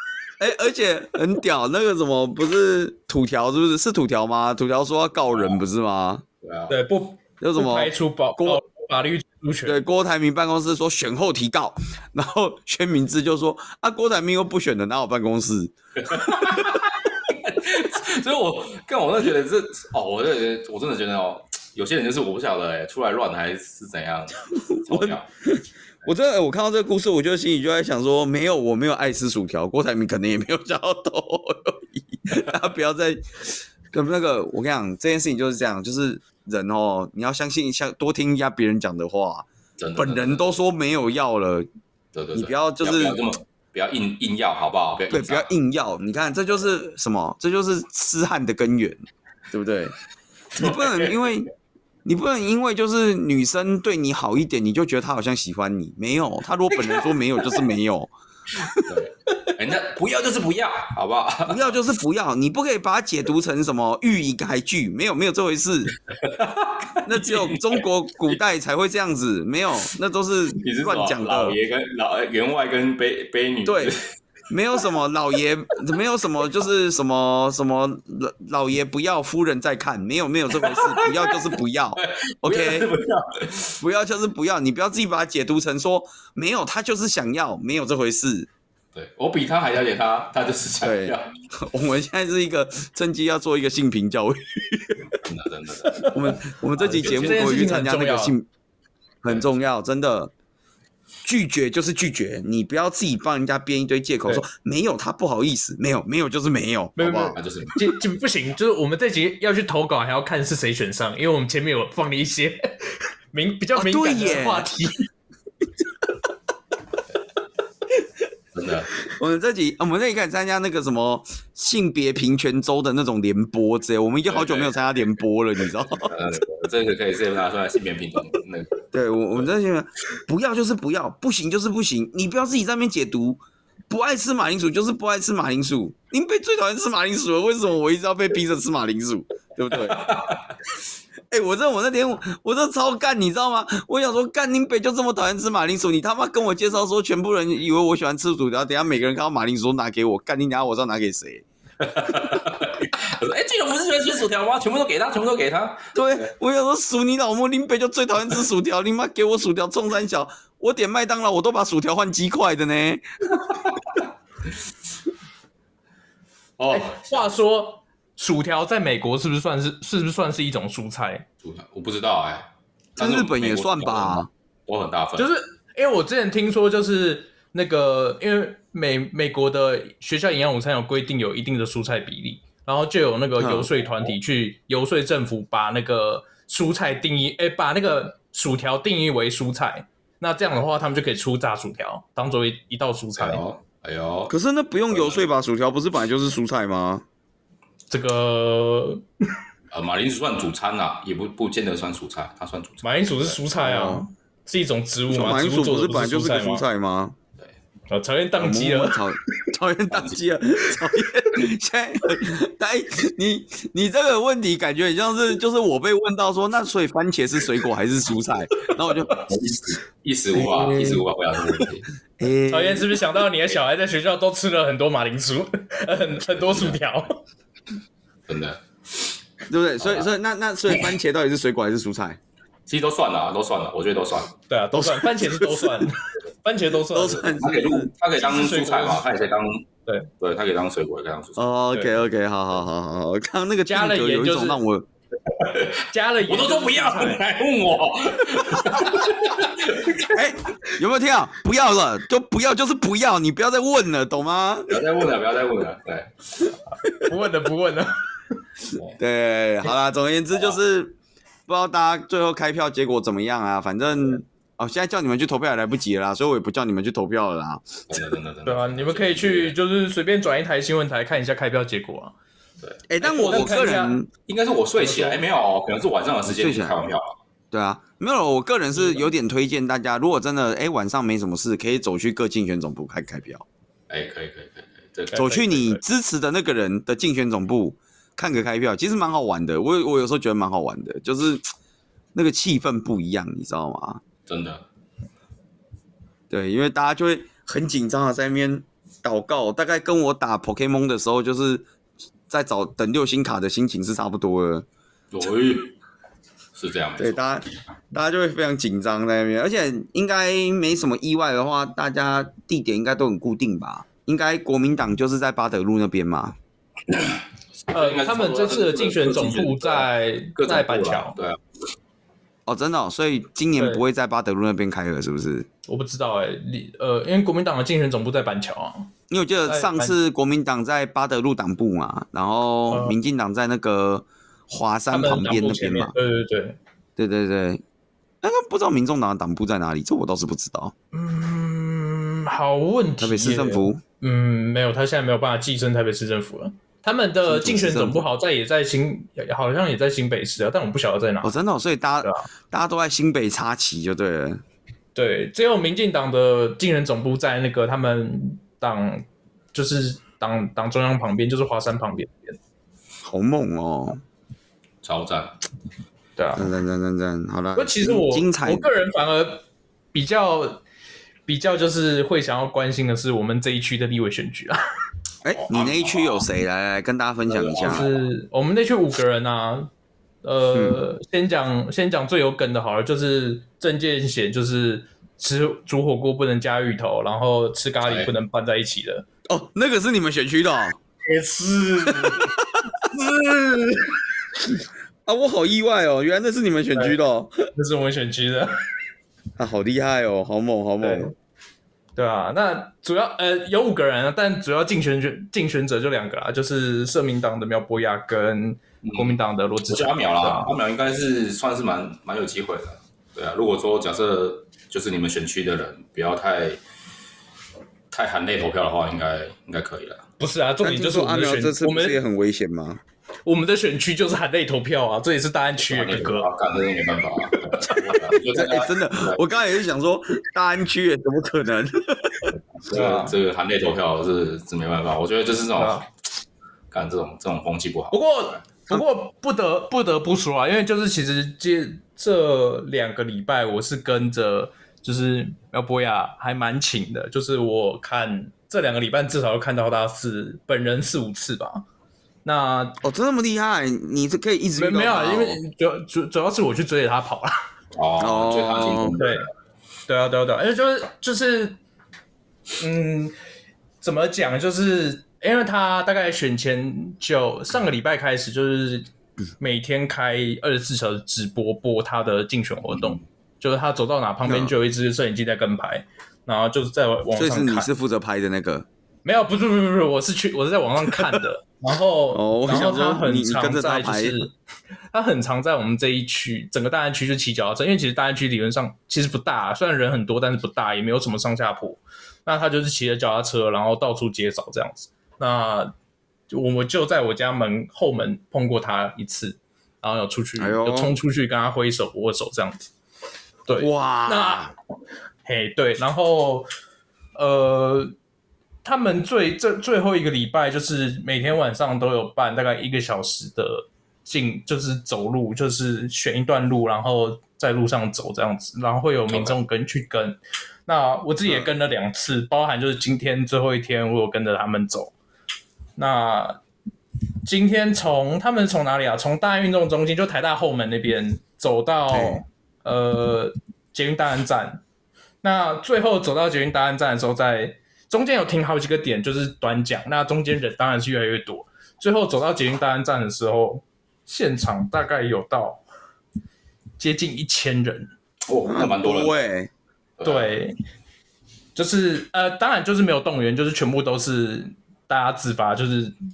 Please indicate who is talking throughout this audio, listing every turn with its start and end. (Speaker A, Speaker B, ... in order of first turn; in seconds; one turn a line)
Speaker A: 0.4-6.2
Speaker B: 5.3-5.6
Speaker B: 6.4-6.7
Speaker C: 6.7-9.8
Speaker A: 7.4-8.6
Speaker A: 9.6-16.8
Speaker B: 16.0-25.2
Speaker A: 24.5-41.7
Speaker B: 39.8-40.5
Speaker B: 42.1-45.5
Speaker A: 42.3-43.2
Speaker A: 45.1-49.0
Speaker A: 49.5-49.9
Speaker A: 50.5-51.5
Speaker B: 50.5-51.3
Speaker A: 52.0-58.9
Speaker B: 56.8-57.1
Speaker B: 58.6-61.8
Speaker A: 61.5-65.9
Speaker B: 66.1-67.8
Speaker A: 67.0-71.6
Speaker B: 70.5-74.0
Speaker A: 73.6-73.9
Speaker A: 74.5-82.9
Speaker B: 80.5-83.8
Speaker A: 83.8-88.5
Speaker B: 88.9-91.3
Speaker A: 90.8-95.2
Speaker B: 95.2-97.6
Speaker A: 96.1-98.5
Speaker C: 96.8-98.3
Speaker A: 99.2-100.3
Speaker B: 99.3-99.5
Speaker A: 101.2-107.4
Speaker C: 107.0-115.1
Speaker B: 107.3-107.9
Speaker A: 113.7-114.7
Speaker B: 118.5-118.9
Speaker A: 119.0-126.1
Speaker B: 124.3-124.7
Speaker B: 126.0-128.8
Speaker A: 128.9-140.2
Speaker B: 139.7-140.4
Speaker A: 141.3-151.4
Speaker B: 151.8-155.9
Speaker A: 152.0-152.3
Speaker A: 155.9-163.0
Speaker B: 166.6-167.3
Speaker C: 166.7-171.2
Speaker B: 171.4-175.3
Speaker A: 173.0-174.3
Speaker C: 175.2-193.4
Speaker A: 183.4-183.7
Speaker B: 193.2-194.3
Speaker A: 194.3-197.0
Speaker B: 194.9-195.2
Speaker C: 197.9-199.0
Speaker B: 199.7-203.4
Speaker C: 202.8-206.6
Speaker A: 203.6-204.0
Speaker A: 205.1-207.2
Speaker C: 207.9-209.0
Speaker A: 208.3-219.2
Speaker B: 209.9-210.2
Speaker B: 219.1-221.8
Speaker A: 220.3-221.1
Speaker A: 222.2-223.0
Speaker C: 222.5-227.2
Speaker B: 226.3-226.8
Speaker B: 228.3-229.1
Speaker A: 229.5-232.2
Speaker B: 229.8-230.1
Speaker B: 232.7-234.3
Speaker C: 234.5-237.4
Speaker A: 234.7-235.9
Speaker A: 236.9-237.9
Speaker B: 237.4-239.6
Speaker C: 238.2-239.0
Speaker B: 240.2-241.5
Speaker A: 241.4-244.9
Speaker C: 243.7-244.6
Speaker B: 245.3-250.2
Speaker C: 245.9-247.2
Speaker A: 250.0-254.8
Speaker B: 254.7-256.4
Speaker C: 256.7-258.1
Speaker A: 259.0-268.0
Speaker B: 267.9-269.6
Speaker C: 268.4-272.1
Speaker B: 272.6-273.6
Speaker A: 272.9-274.1
Speaker C: 273.0-274.0
Speaker B: 274.2-277.1
Speaker C: 274.8-275.2
Speaker A: 276.2-276.8
Speaker A: 277.5-283.4
Speaker C: 278.7-279.1
Speaker B: 283.9-285.3
Speaker C: 285.1-285.8
Speaker A: 285.1-291.5
Speaker A: 292.1-294.0
Speaker B: 294.3-294.6
Speaker A: 296.3-301.7
Speaker A: 302.3-304.6
Speaker B: 305.1-305.7
Speaker B: 306.6-307.2
Speaker A: 307.0-316.4
Speaker B: 316.9-321.4
Speaker C: 317.7-321.1
Speaker A: 322.4-325.5
Speaker C: 323.6-323.8
Speaker C: 325.7-328.9
Speaker A: 329.1-335.9
Speaker C: 329.4-329.9
Speaker C: 332.7-332.9
Speaker C: 334.9-336.6
Speaker A: 337.0-337.6
Speaker A: 338.2-340.7
Speaker C: 340.9-351.4
Speaker A: 343.0-343.8
Speaker A: 347.3-348.0
Speaker A: 351.2-354.4
Speaker C: 352.0-352.3
Speaker C: 354.9-362.4
Speaker A: 363.0-364.0
Speaker B: 364.8-365.4
Speaker C: 366.2-366.5
Speaker A: 366.3-368.7
Speaker C: 367.5-370.6
Speaker C: 371.2-374.6
Speaker A: 375.2-377.9
Speaker B: 375.5-376.3
Speaker B: 377.3-378.0
Speaker C: 377.6-379.7
Speaker C: 380.2-389.1
Speaker A: 380.5-380.8
Speaker B: 387.8-388.1
Speaker A: 389.3-390.8
Speaker C: 391.0-392.3
Speaker A: 392.0-397.5
Speaker C: 397.5-398.6
Speaker A: 399.4-401.1
Speaker C: 400.8-401.1
Speaker C: 401.9-410.5
Speaker B: 408.8-416.6
Speaker B: 417.9-420.0
Speaker C: 420.2-422.0
Speaker A: 420.6-422.8
Speaker C: 423.2-426.3
Speaker B: 425.6-429.2
Speaker C: 427.5-427.8
Speaker A: 428.2-432.3
Speaker B: 432.6-435.9
Speaker C: 432.7-433.1
Speaker C: 435.6-435.8
Speaker B: 436.7-438.3
Speaker C: 437.9-451.6
Speaker C: 452.2-452.8
Speaker A: 452.8-455.4
Speaker C: 454.6-457.4
Speaker B: 457.7-459.2
Speaker A: 458.0-459.0
Speaker C: 458.9-459.3
Speaker C: 459.9-461.6
Speaker C: 462.6-463.1
Speaker C: 463.8-468.9
Speaker C: 469.4-477.7
Speaker A: 474.2-474.5
Speaker A: 477.1-478.6
Speaker C: 479.0-484.3
Speaker A: 482.1-484.2
Speaker C: 484.9-495.7
Speaker C: 496.3-502.7
Speaker A: 500.4-500.9
Speaker C: 503.5-504.5
Speaker A: 503.6-504.5
Speaker C: 505.2-506.5
Speaker C: 507.1-507.9
Speaker C: 508.6-524.9
Speaker C: 525.8-526.4
Speaker C: 527.2-534.6
Speaker A: 531.9-532.2
Speaker C: 535.2-545.6
Speaker C: 546.8-547.9
Speaker B: 548.3-549.2
Speaker A: 548.4-549.5
Speaker B: 550.0-550.3
Speaker C: 550.0-550.5
Speaker C: 551.5-555.9